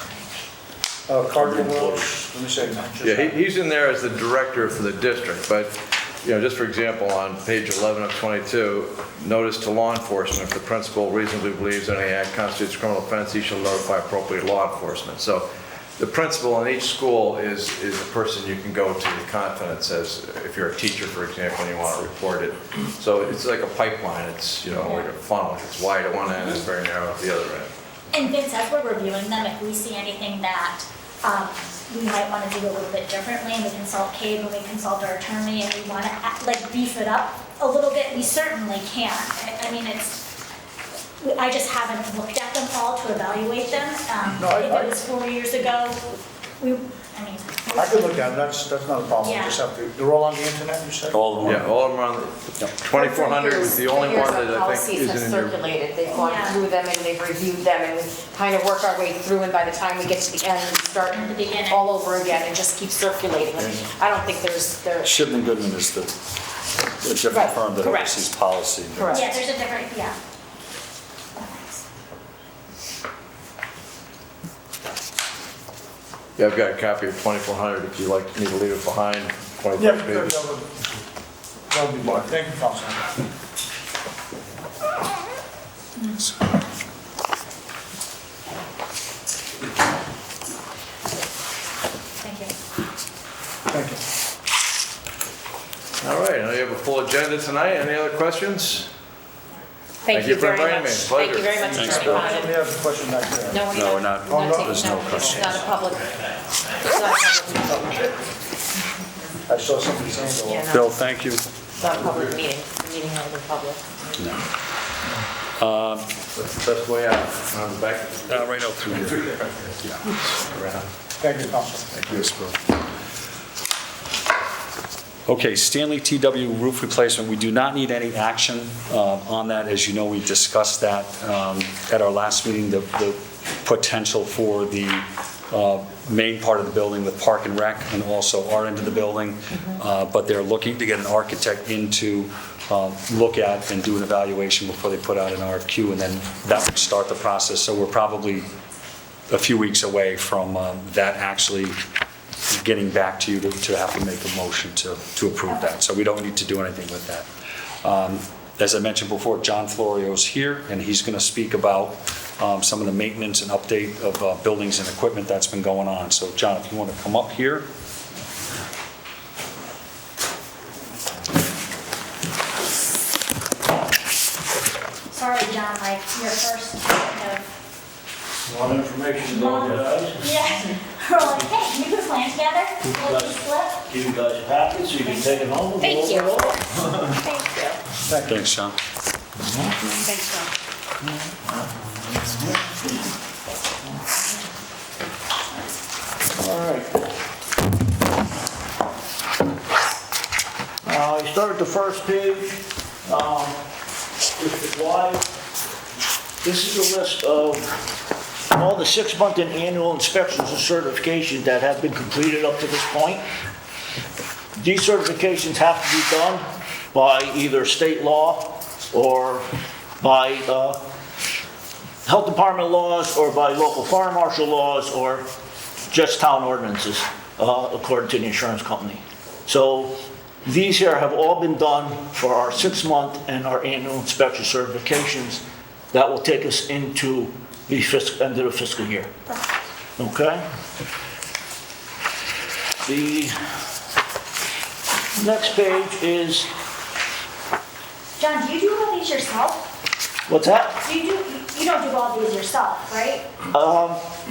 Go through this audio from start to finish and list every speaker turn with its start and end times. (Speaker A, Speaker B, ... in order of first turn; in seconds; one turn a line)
Speaker A: 1.1-3.4
Speaker B: 1.4-1.8
Speaker C: 3.0-15.5
Speaker C: 16.0-27.7
Speaker D: 24.7-25.0
Speaker D: 28.1-40.2
Speaker D: 41.2-48.3
Speaker A: 44.3-45.0
Speaker A: 47.7-51.6
Speaker D: 49.2-49.6
Speaker E: 51.1-51.7
Speaker C: 51.4-55.6
Speaker F: 52.9-65.3
Speaker D: 56.1-56.6
Speaker D: 61.1-62.0
Speaker E: 65.0-66.1
Speaker E: 67.0-69.2
Speaker F: 67.3-68.2
Speaker F: 69.0-69.2
Speaker D: 69.1-70.2
Speaker D: 71.4-71.8
Speaker C: 76.4-80.3
Speaker A: 79.8-80.7
Speaker A: 81.7-83.0
Speaker D: 86.0-86.2
Speaker D: 92.2-92.5
Speaker A: 93.7-94.0
Speaker C: 96.0-98.9
Speaker F: 100.0-102.6
Speaker C: 100.1-102.2
Speaker E: 101.7-102.3
Speaker A: 101.8-103.6
Speaker F: 103.5-106.1
Speaker E: 103.7-105.7
Speaker A: 104.3-105.6
Speaker F: 106.7-108.2
Speaker A: 109.5-110.6
Speaker F: 110.5-110.9
Speaker E: 110.7-111.4
Speaker F: 111.8-113.8
Speaker E: 115.6-116.1
Speaker C: 116.3-120.8
Speaker E: 118.3-119.3
Speaker A: 121.2-121.9
Speaker C: 121.9-122.2
Speaker E: 122.1-122.6
Speaker E: 125.3-148.5
Speaker E: 149.3-151.8
Speaker E: 152.5-157.3
Speaker E: 157.8-167.6
Speaker D: 175.1-177.4
Speaker B: 178.5-180.3
Speaker D: 179.2-183.8
Speaker B: 182.8-187.1
Speaker D: 184.7-186.4
Speaker D: 187.2-187.8
Speaker A: 188.1-188.3
Speaker E: 188.2-188.8
Speaker B: 189.4-189.9
Speaker D: 190.0-190.5
Speaker B: 191.4-193.0
Speaker B: 196.3-196.9
Speaker B: 200.8-203.6
Speaker B: 204.4-205.2
Speaker B: 206.4-207.7
Speaker B: 208.5-213.2
Speaker B: 214.6-219.4
Speaker B: 220.0-220.8
Speaker B: 222.0-225.2
Speaker B: 225.9-229.9
Speaker B: 230.4-239.1
Speaker B: 240.0-240.4
Speaker B: 242.8-243.3
Speaker B: 245.2-246.5
Speaker D: 248.2-249.7
Speaker B: 250.3-250.8
Speaker D: 250.8-253.3
Speaker B: 253.5-254.0